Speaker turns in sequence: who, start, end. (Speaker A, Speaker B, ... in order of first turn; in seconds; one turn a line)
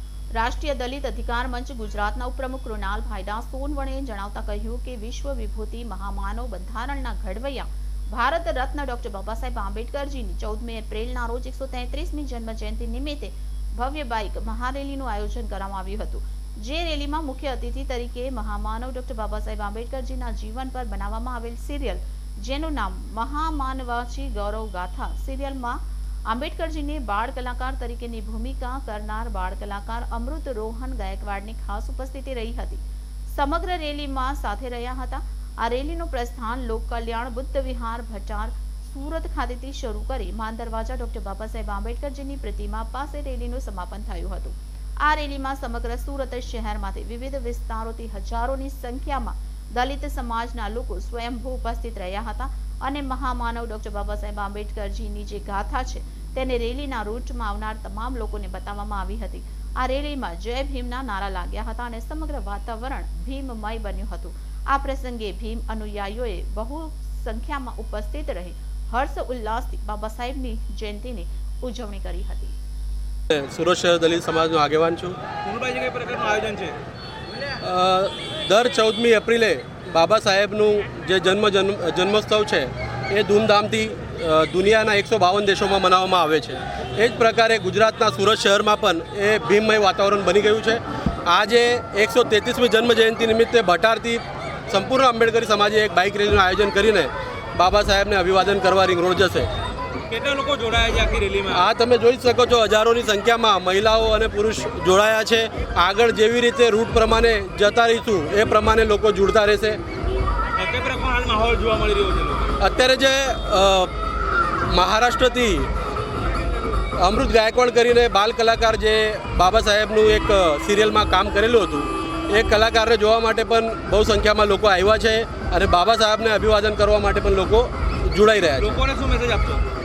Speaker A: 0.3-72.5
Speaker B: 73.3-75.2
Speaker C: 75.4-76.8
Speaker B: 77.6-99.5
Speaker C: 100.0-101.6
Speaker B: 101.5-109.8
Speaker C: 110.5-112.5
Speaker B: 112.6-113.9
Speaker B: 114.7-115.7
Speaker B: 117.0-128.7
Speaker C: 128.6-129.7